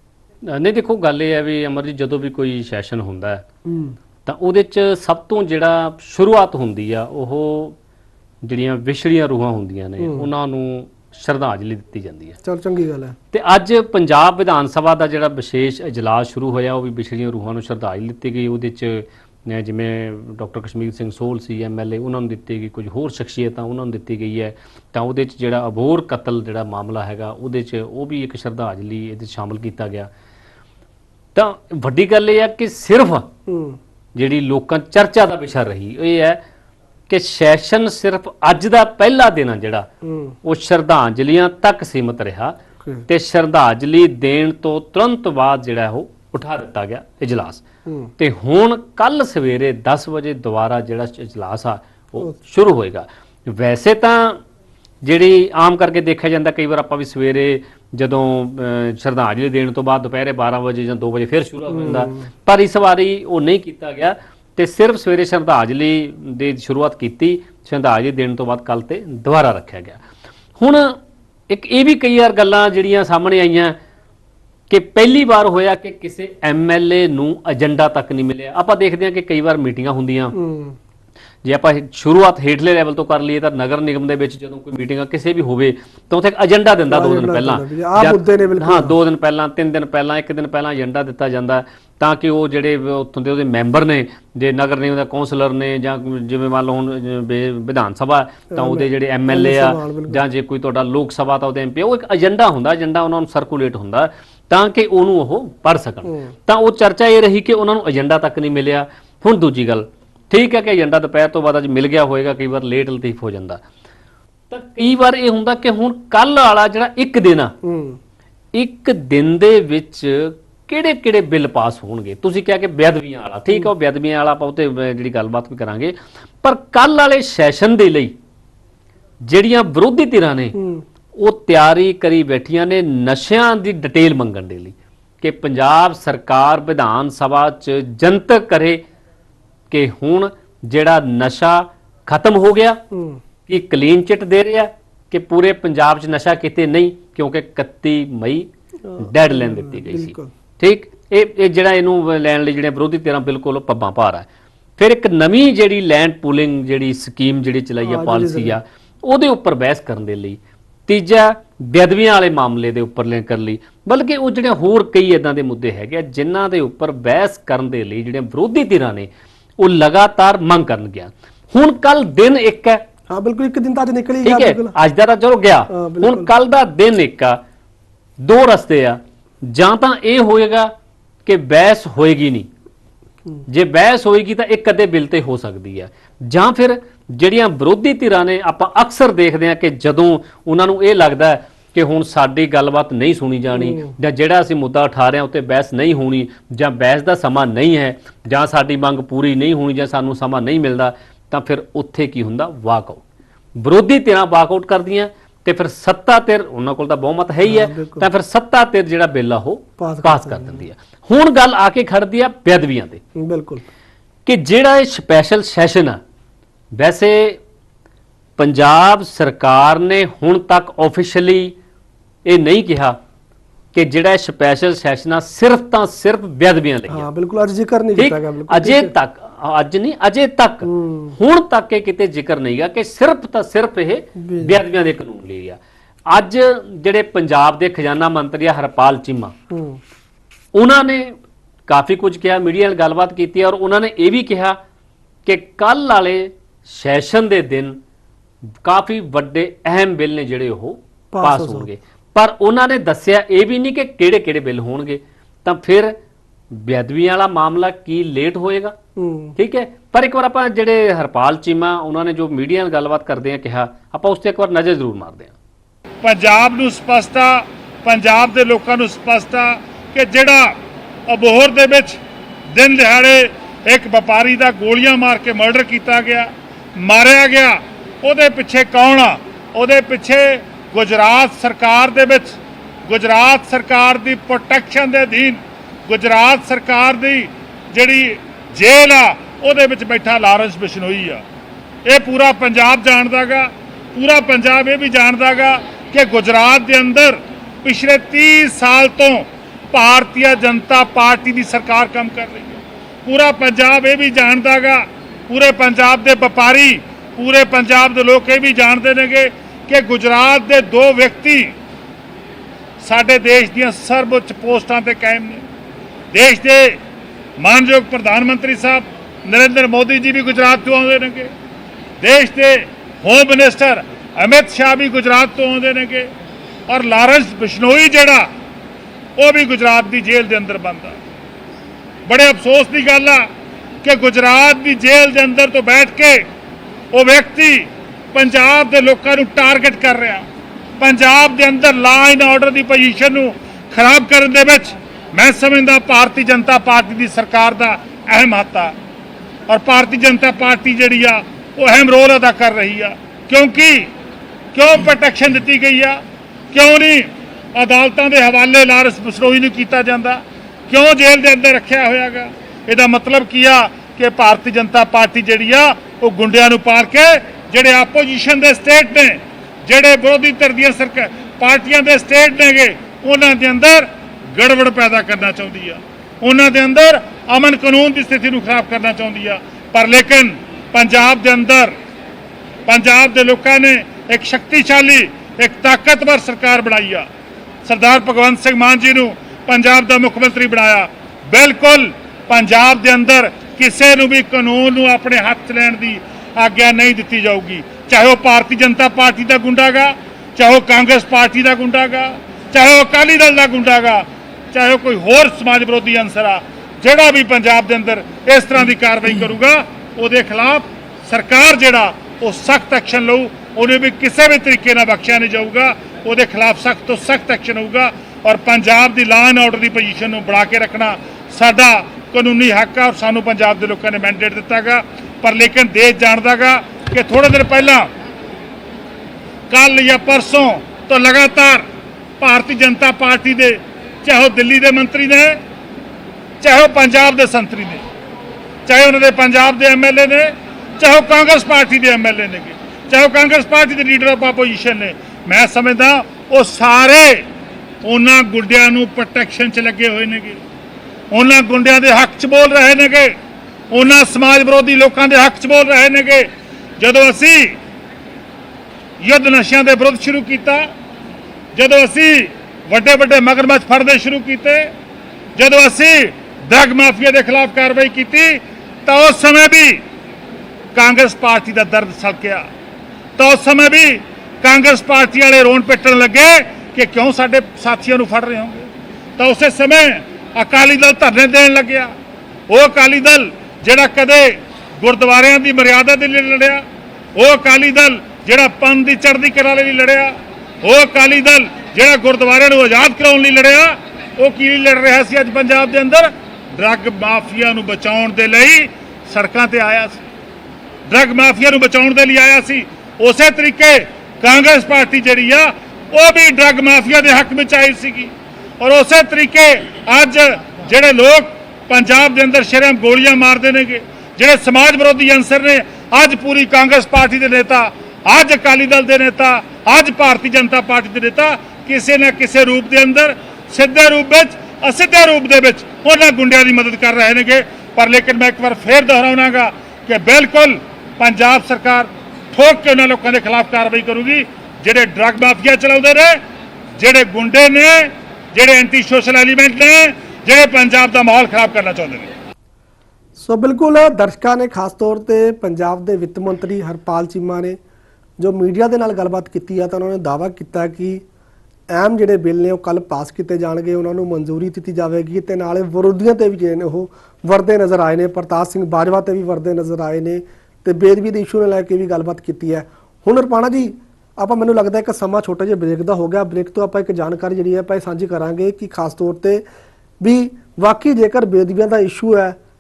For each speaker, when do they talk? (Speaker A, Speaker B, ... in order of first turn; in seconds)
Speaker A: 0.4-3.4, 4.3-7.8, 8.4-12.4, 13.3-30.1, 31.4-33.3, 34.1-36.4, 37.1-39.9, 40.4-47.6, 48.2-54.4, 55.0-70.0, 70.6-73.8, 74.7-80.4, 81.4-113.6, 114.5-117.5, 118.5-128.2, 129.2-130.6, 131.2-138.8, 139.7-142.8, 143.5-172.8, 174.2-177.4, 178.2-180.7, 181.3-182.5, 183.5-203.0, 203.6-213.0, 214.3-216.0, 216.7-217.4, 218.4-221.5, 222.2-223.0, 223.7-227.1, 228.0-235.6, 236.1-239.3, 240.5-244.6, 245.3-247.8, 248.6-256.0, 256.5-258.8, 259.4-265.3
Speaker B: 3.6-4.0, 10.0-10.3, 12.4-13.2, 33.5-33.8, 40.0-40.4, 47.9-48.1, 61.7-62.3, 80.3-80.8, 86.9-89.0, 98.5-100.2, 106.1-106.3, 117.6-118.0, 130.6-130.8, 142.9-143.2, 148.9-150.3, 157.8-158.6, 173.1-174.8, 175.7-176.3, 193.5-193.9, 207.4-208.1, 209.8-210.7, 213.2-213.7, 226.9-228.9, 230.6-231.2, 234.2-234.6, 239.5-239.8, 251.1-251.7, 259.0-259.4, 543.2-547.6, 548.2-551.0, 551.7-569.4, 570.0-572.4
Speaker C: 266.0-272.0, 272.5-291.2, 291.9-311.5, 312.8-315.4, 316.1-316.8, 317.4-321.3, 322.0-326.1, 326.7-328.3, 329.2-331.0, 332.1-333.3, 333.8-336.2, 336.9-340.2, 340.8-348.8, 349.5-353.9, 354.5-356.0, 356.5-381.7, 382.7-387.1, 387.6-427.9, 429.5-431.6, 432.2-435.4, 436.4-437.8, 438.7-447.2, 447.8-450.4, 451.1-453.1, 453.7-456.3, 456.8-457.5, 459.0-460.6, 461.6-464.7, 465.4-469.8, 470.8-472.5, 473.2-481.9, 482.5-486.6, 487.2-500.0, 500.9-536.2, 536.8-542.1